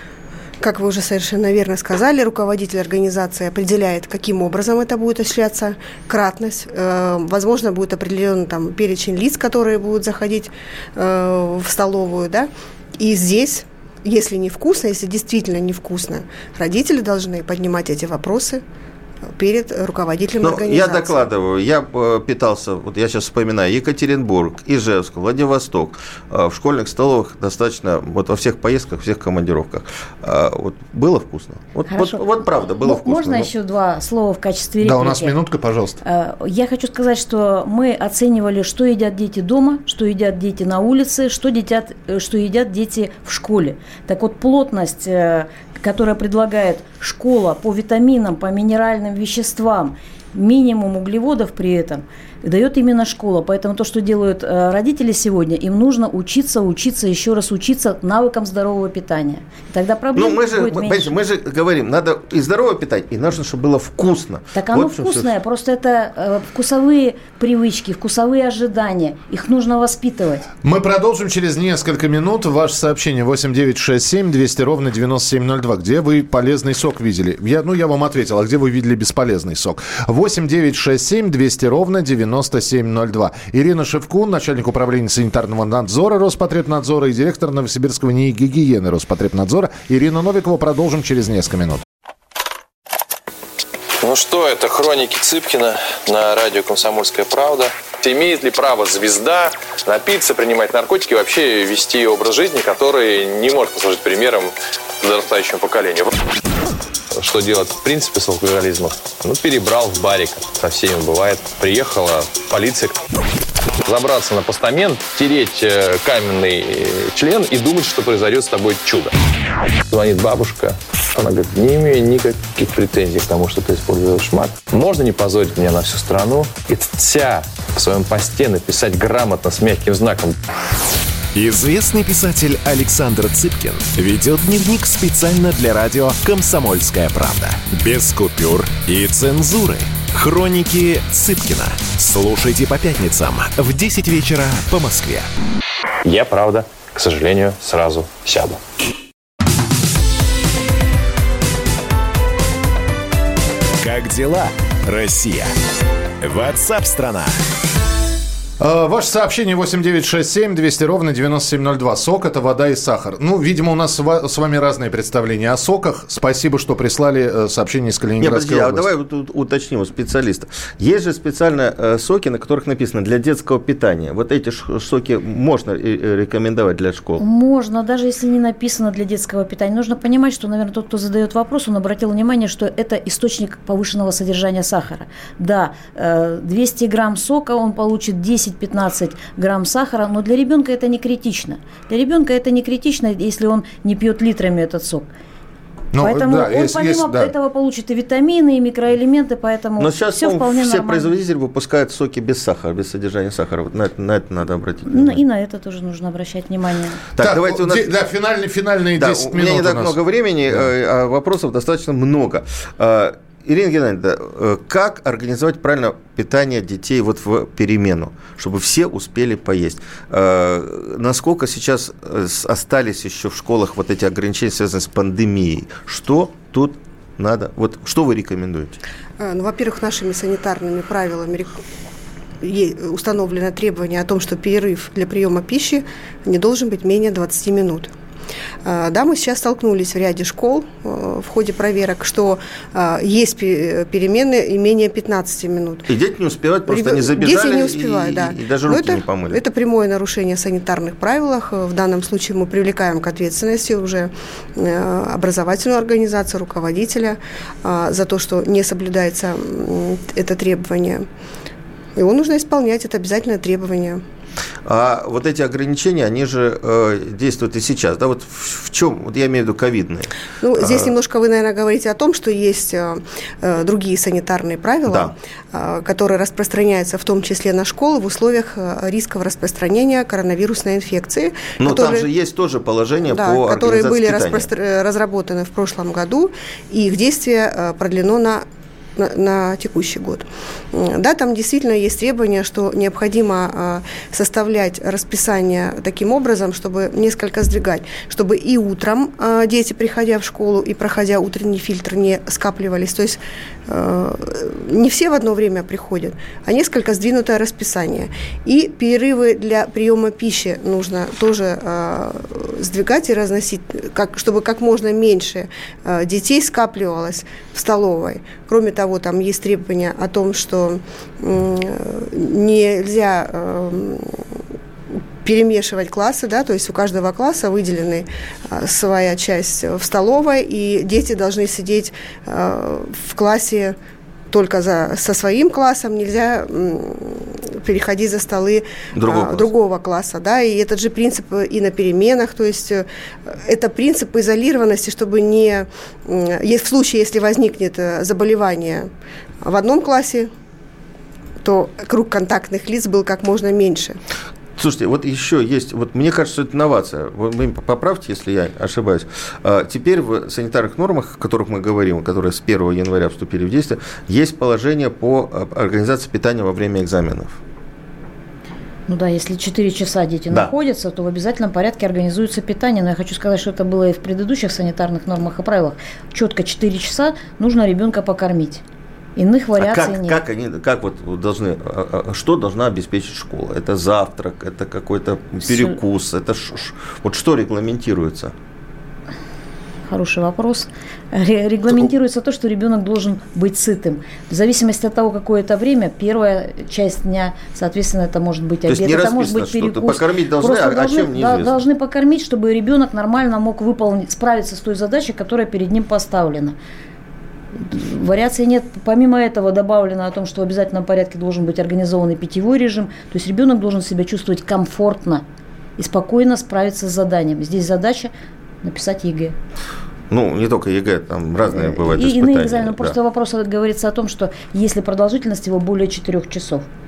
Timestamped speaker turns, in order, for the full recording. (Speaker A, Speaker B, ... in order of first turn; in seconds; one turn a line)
Speaker A: 0.6-18.6
Speaker A: 19.4-21.3
Speaker B: 20.4-33.5
Speaker C: 31.9-32.2
Speaker C: 32.8-35.4
Speaker D: 34.8-36.0
Speaker C: 36.0-61.1
Speaker B: 60.1-65.3
Speaker C: 64.5-70.5
Speaker D: 70.6-91.8
Speaker E: 94.0-106.2
Speaker E: 107.1-113.0
Speaker E: 113.8-119.1
Speaker E: 119.9-130.4
Speaker F: 131.3-145.3
Speaker E: 146.0-148.6
Speaker F: 153.8-155.5
Speaker F: 156.2-157.3
Speaker D: 158.6-168.9
Speaker B: 168.2-177.2
Speaker C: 177.2-195.1
Speaker D: 195.9-197.3
Speaker C: 196.0-201.1
Speaker B: 199.8-205.2
Speaker C: 204.9-207.0
Speaker B: 207.2-207.9
Speaker D: 207.2-210.0
Speaker B: 209.0-228.8
Speaker A: 229.2-231.6
Speaker A: 232.4-237.9
Speaker A: 238.6-245.9
Speaker B: 245.9-249.4
Speaker A: 246.7-261.1
Speaker A: 261.9-264.0
Speaker B: 264.6-270.9
Speaker A: 270.4-282.1
Speaker B: 274.9-275.1
Speaker B: 281.6-284.5
Speaker A: 283.1-288.4
Speaker A: 289.0-324.2
Speaker A: 325.2-333.7
Speaker A: 334.3-348.9
Speaker B: 338.9-339.5
Speaker A: 349.4-350.3
Speaker A: 351.4-354.0
Speaker B: 354.6-367.4
Speaker C: 368.9-378.6
Speaker C: 379.1-380.2
Speaker B: 379.6-388.3
Speaker C: 385.4-385.7
Speaker C: 389.9-406.6
Speaker B: 398.7-401.6
Speaker C: 407.6-415.2
Speaker C: 415.8-418.1
Speaker C: 418.6-419.3
Speaker B: 420.1-422.9
Speaker C: 421.5-426.6